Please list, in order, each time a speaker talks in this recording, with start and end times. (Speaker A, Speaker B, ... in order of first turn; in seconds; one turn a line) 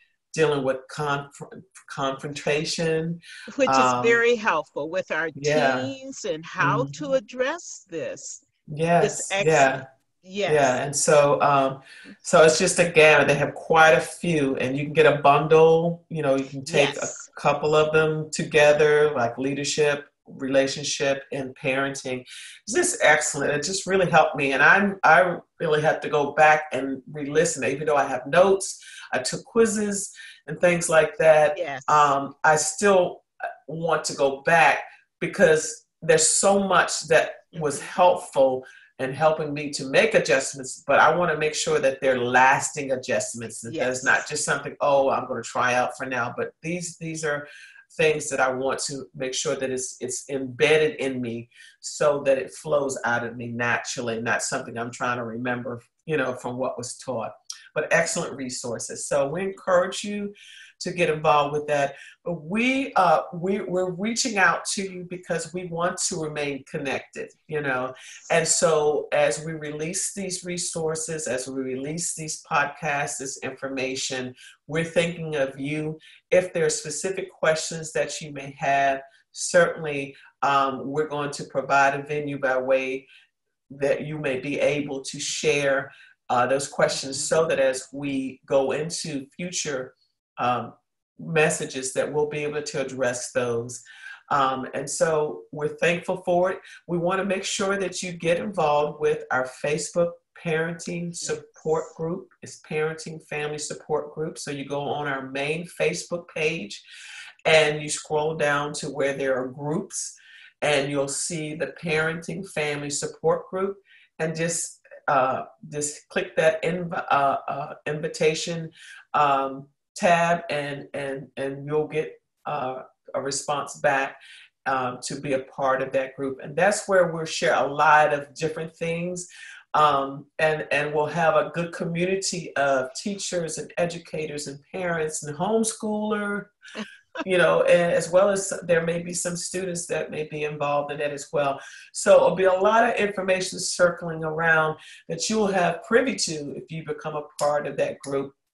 Speaker A: 0.3-4.2
Speaker B: 3.5-8.4
Speaker A: 5.4-5.9
Speaker A: 6.6-7.1
Speaker A: 8.7-9.8
Speaker B: 9.0-10.8
Speaker A: 10.5-83.1
Speaker B: 16.6-17.2
Speaker B: 31.5-32.1
Speaker B: 37.5-37.9
Speaker B: 43.7-44.2
Speaker A: 83.7-106.8
Speaker B: 86.9-87.3
Speaker A: 107.5-136.5
Speaker A: 137.2-148.3